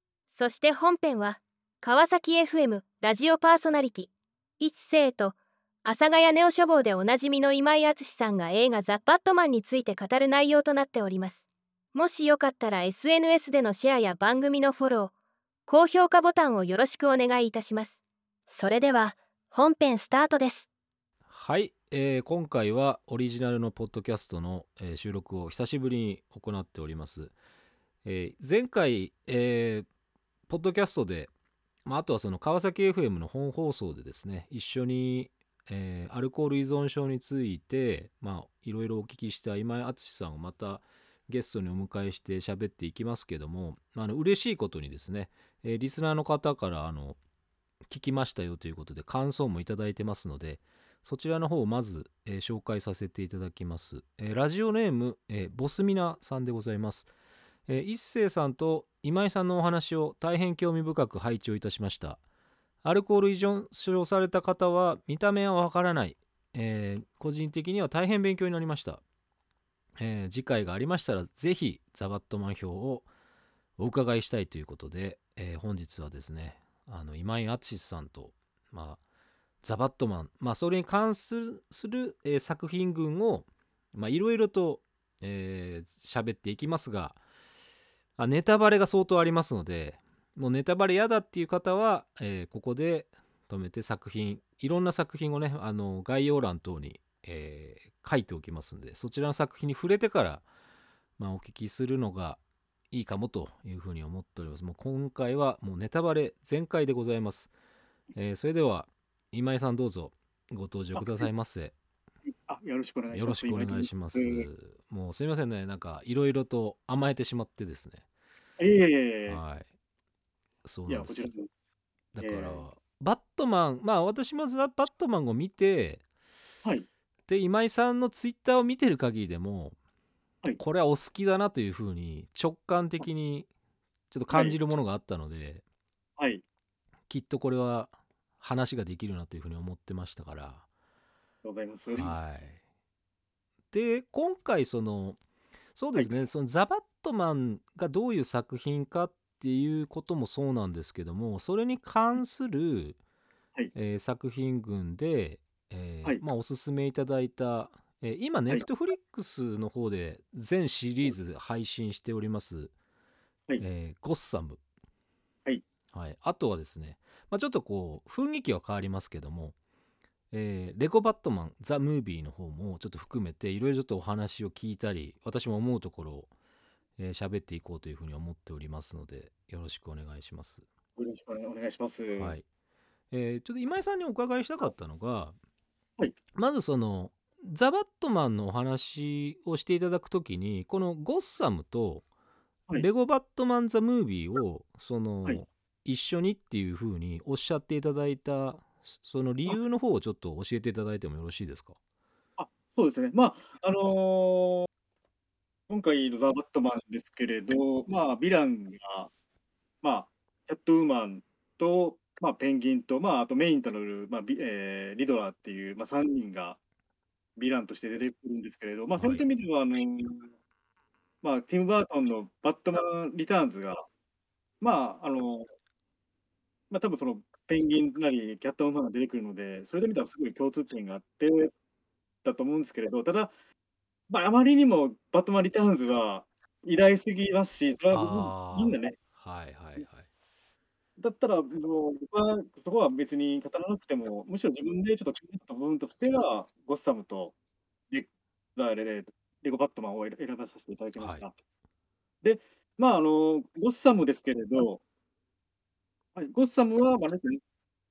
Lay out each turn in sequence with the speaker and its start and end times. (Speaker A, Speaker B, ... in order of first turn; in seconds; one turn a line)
Speaker A: 0.3-15.1
Speaker A: 15.7-20.7
Speaker B: 21.3-27.3
Speaker B: 28.1-29.9
Speaker B: 30.5-31.3
Speaker B: 31.9-47.2
Speaker B: 47.9-57.1
Speaker B: 57.7-62.2
Speaker B: 62.8-69.0
Speaker B: 70.0-73.1
Speaker B: 73.8-79.0
Speaker B: 79.6-87.2
Speaker B: 88.2-100.5
Speaker B: 101.2-102.4
Speaker B: 102.9-107.5
Speaker B: 108.2-111.8
Speaker C: 111.0-111.3
Speaker C: 112.3-114.5
Speaker B: 113.1-118.0
Speaker C: 118.6-119.4
Speaker B: 119.3-119.7
Speaker B: 120.6-121.3
Speaker C: 120.9-121.5
Speaker B: 122.1-126.0
Speaker C: 122.2-122.7
Speaker B: 127.3-129.8
Speaker B: 130.6-133.5
Speaker B: 134.1-135.6
Speaker C: 134.3-134.6
Speaker C: 136.2-136.4
Speaker B: 137.1-140.7
Speaker C: 141.4-142.2
Speaker B: 141.9-142.6
Speaker B: 143.7-145.2
Speaker B: 145.8-153.0
Speaker B: 153.8-162.7
Speaker B: 163.6-164.6
Speaker B: 165.9-169.6
Speaker B: 170.3-176.3
Speaker B: 177.0-180.7
Speaker C: 181.0-182.4
Speaker B: 182.2-182.4
Speaker B: 183.1-185.4
Speaker B: 186.3-192.1
Speaker B: 192.8-201.8
Speaker C: 202.4-204.7
Speaker C: 205.7-209.1
Speaker C: 209.8-216.6
Speaker C: 217.4-220.3
Speaker B: 219.0-219.2
Speaker C: 221.2-223.8
Speaker C: 224.6-225.5
Speaker C: 226.7-231.5
Speaker C: 232.2-233.3
Speaker C: 234.1-239.0
Speaker B: 237.9-240.1
Speaker C: 241.0-247.3
Speaker C: 247.9-251.3
Speaker C: 252.2-254.8
Speaker C: 256.2-257.4